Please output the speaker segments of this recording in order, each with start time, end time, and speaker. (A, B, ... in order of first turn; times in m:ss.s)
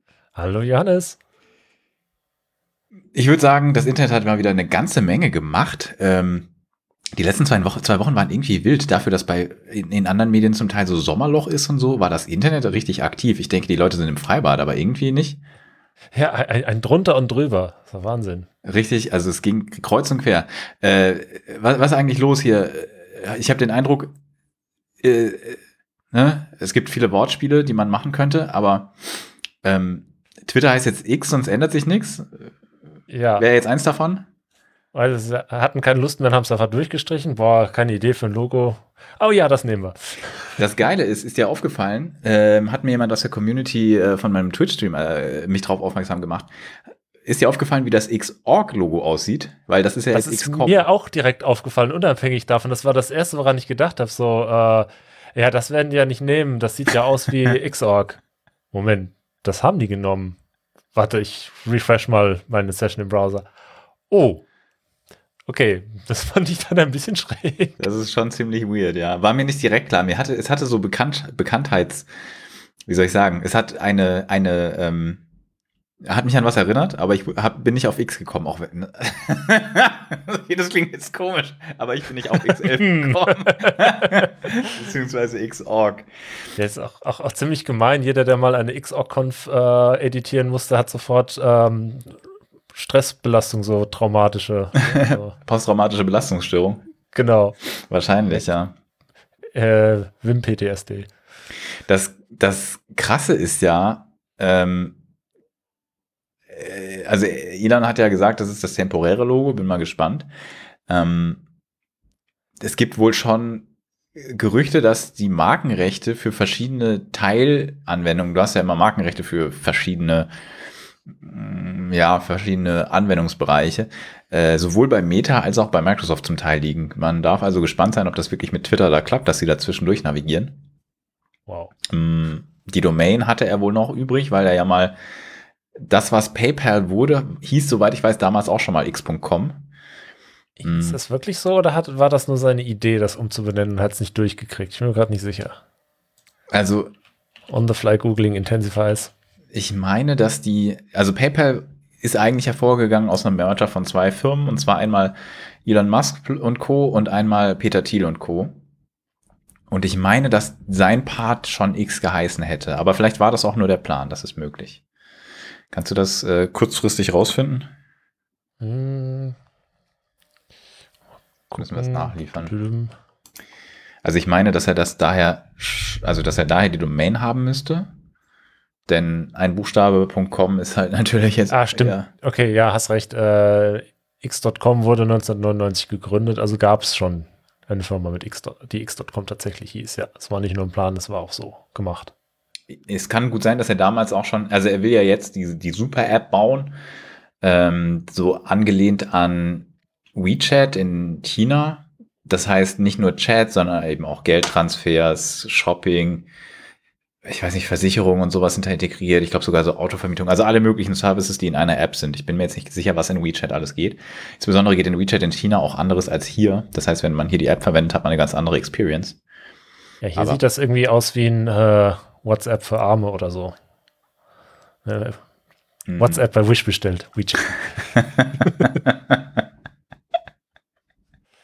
0:00.4-0:01.2 A
0:03.1-0:06.5 B
0:07.2-0:15.4 B
0:16.1-0:18.5 A
0:18.6-0:24.1 B
0:25.0-0:25.6 B
0:26.1-0:32.5 B
0:33.1-0:33.4 A
0:33.4-0:34.3 B
0:34.9-0:40.6 A
0:40.6-0:46.5 B
0:47.2-0:50.8 B
0:50.1-0:58.2 A
0:58.7-1:00.4 A
1:00.9-1:03.4 A
1:04.1-1:04.4 A
1:05.5-1:07.8 A
1:07.8-1:12.1 B
1:12.9-1:15.2 B
1:16.0-1:26.1 B
1:22.9-1:24.3 A
1:26.6-1:32.2 A
1:32.7-1:35.3 A
1:34.8-1:36.8 B
1:37.1-1:37.6 A
1:37.9-1:38.7 B
1:39.5-1:41.1 A
1:41.9-1:45.0 B
1:46.5-1:50.3 B
1:50.9-1:51.4 B
1:52.6-2:00.3 B
2:01.2-2:10.6 B
2:11.5-2:11.7 A
2:11.9-2:15.0 B
2:15.8-2:19.6 B
2:20.6-2:25.6 A
2:20.6-2:21.0 B
2:26.5-2:26.9 B
2:27.5-2:29.1 A
2:29.5-2:38.6 B
2:39.7-2:44.8 B
2:45.7-2:47.7 B
2:48.6-2:49.4 A
2:51.5-2:52.9 A
2:51.6-2:52.5 B
2:54.0-2:57.9 B
2:58.9-3:02.1 B
3:01.5-3:12.1 A
3:12.7-3:16.8 B
3:17.4-3:26.3 B
3:27.2-3:39.2 B
3:40.0-3:43.6 A
3:44.8-3:45.2 A
3:45.9-3:46.2 B
3:46.0-3:47.9 A
3:48.2-3:48.9 B
3:48.4-3:48.7 A